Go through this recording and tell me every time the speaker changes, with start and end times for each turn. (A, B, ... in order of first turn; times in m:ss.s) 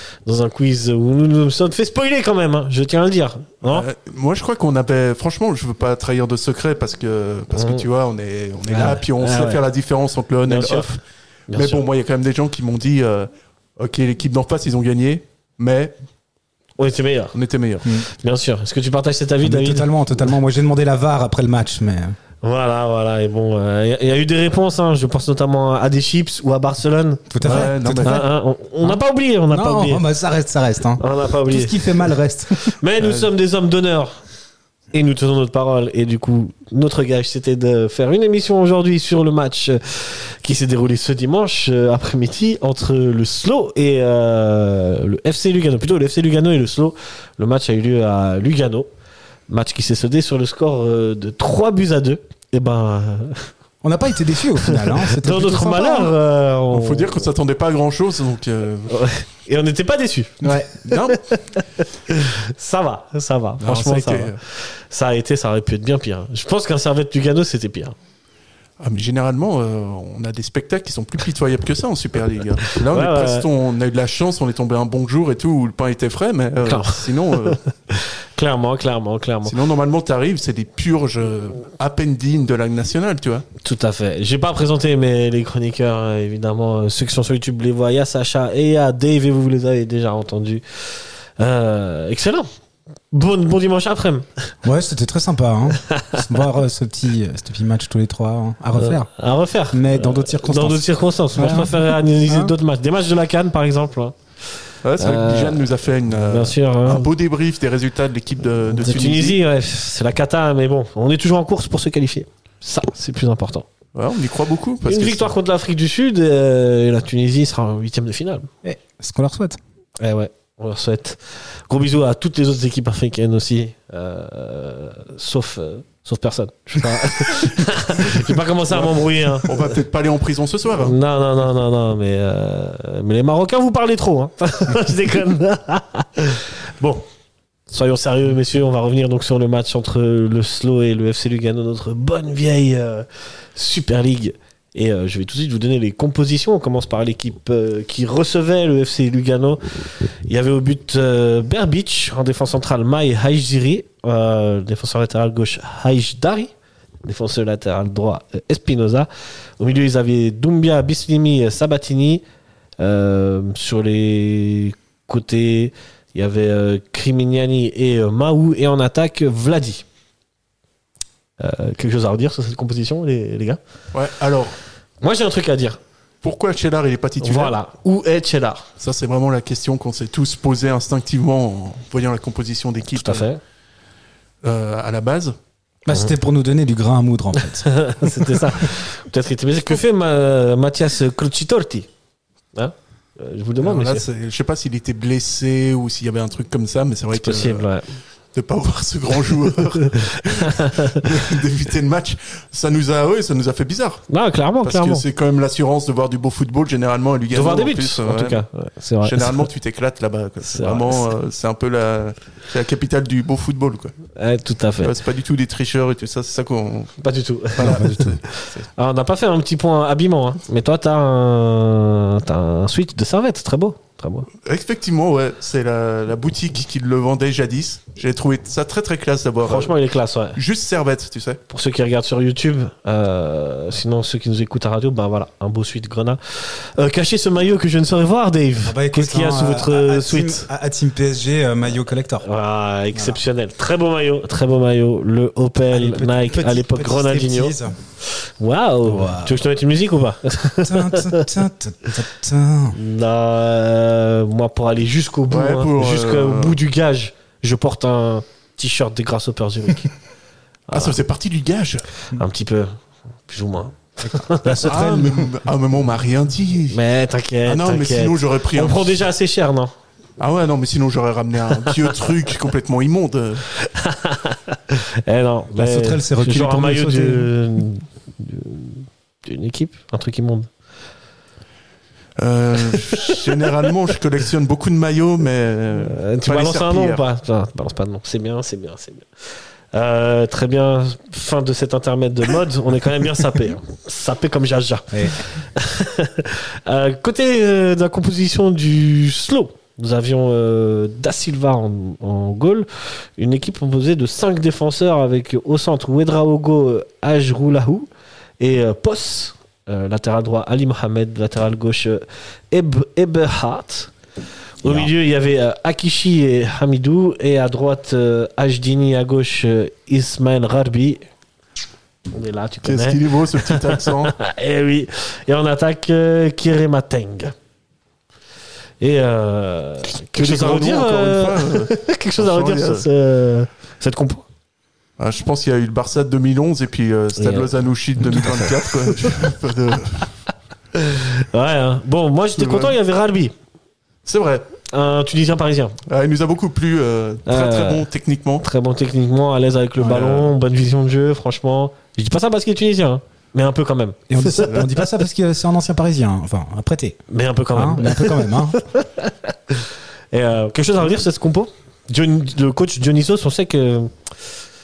0:00.2-0:03.9 A
0:03.7-0:11.0 B
0:07.5-0:07.8 A
0:08.7-0:09.6 A
0:10.5-0:11.0 A
0:11.5-0:11.8 A
0:11.5-0:15.9 B
0:16.8-0:17.3 A
0:17.3-0:17.9 B
0:18.2-0:19.9 A
0:19.4-0:22.2 C
0:22.4-0:30.0 A
0:27.3-0:28.2 C
0:27.4-0:28.2 B
0:29.5-0:32.7 C
0:31.0-0:34.2 A
0:33.0-0:33.3 B
0:34.9-0:48.9 A
0:49.5-0:53.5 A
0:53.8-0:56.1 C
0:54.6-0:57.2 A
0:56.7-0:58.9 B
0:58.9-1:08.0 A
1:00.4-1:00.7 C
1:00.9-1:01.2 B
1:03.6-1:04.4 B
1:08.8-1:17.6 B
1:12.7-1:13.5 A
1:16.6-1:19.5 A
1:19.4-1:23.4 B
1:23.6-1:32.5 A
1:33.1-1:34.5 A
1:34.6-1:39.1 C
1:35.9-1:36.2 A
1:38.8-1:44.2 A
1:39.7-1:42.5 C
1:44.8-1:49.4 B
1:45.0-1:45.6 A
1:46.1-1:47.1 A
1:48.7-1:53.6 A
1:53.9-1:55.3 B
1:54.8-1:58.5 A
1:58.6-1:59.6 C
2:00.0-2:09.7 A
2:08.7-2:10.9 B
2:10.8-2:17.0 A
2:17.7-2:36.5 A
2:37.0-2:42.2 A
2:42.8-2:49.8 A
2:51.4-2:53.6 A
2:53.9-2:54.6 B
2:55.0-2:55.8 A
2:56.2-2:57.5 B
2:57.2-2:58.7 A
2:58.8-3:03.3 B
3:02.9-3:03.4 A
3:04.4-3:05.3 B
3:05.8-3:08.5 C
3:07.4-3:11.9 A
3:12.5-3:14.0 A
3:13.6-3:17.7 B
3:17.2-3:17.8 A
3:18.3-3:24.0 B
3:20.0-3:21.0 A
3:24.1-3:25.0 A
3:24.6-3:28.4 B
3:27.3-3:29.4 A
3:29.0-3:34.0 B
3:30.4-3:31.1 A
3:34.2-3:34.9 A
3:34.8-3:36.9 B
3:37.0-3:44.3 A
3:37.6-3:38.7 B
3:37.6-3:38.2 C
3:44.4-3:49.7 B
3:49.4-3:50.4 A
3:50.3-3:51.4 B
3:51.5-4:00.5 A
3:58.6-4:02.2 C
4:02.2-4:11.3 A
4:02.9-4:03.2 C
4:05.7-4:07.7 C
4:08.8-4:09.4 C
4:10.6-4:12.8 C
4:12.7-4:19.9 A
4:15.3-4:16.6 B
4:20.7-4:21.9 B
4:20.7-4:21.0 A
4:22.1-4:22.7 A
4:23.3-4:24.9 A
4:24.0-4:25.3 C
4:24.6-4:26.8 B
4:26.7-4:29.7 A
4:27.4-4:29.0 B
4:30.2-4:33.4 B
4:31.6-4:32.0 A
4:33.6-4:40.5 A
4:35.6-4:37.3 C
4:42.2-4:47.0 B
4:42.7-4:43.5 A
4:45.9-4:49.1 A
4:49.7-5:07.9 A
4:54.9-4:55.2 C
5:08.4-5:13.9 A
5:14.6-5:21.0 A
5:14.6-5:14.9 C
5:22.1-5:27.3 A
5:22.6-5:24.1 B
5:28.8-5:34.2 A
5:30.0-5:32.8 B
5:35.0-5:40.1 B
5:37.2-5:39.3 A
5:40.7-5:43.3 A
5:42.4-5:42.8 B
5:44.0-5:44.5 B
5:44.7-5:45.8 A
5:45.9-5:48.4 B
5:47.2-5:47.8 A
5:48.4-5:54.9 A
5:49.8-5:50.3 B
5:54.1-5:57.0 C
5:57.1-6:04.1 A
5:57.5-5:58.6 C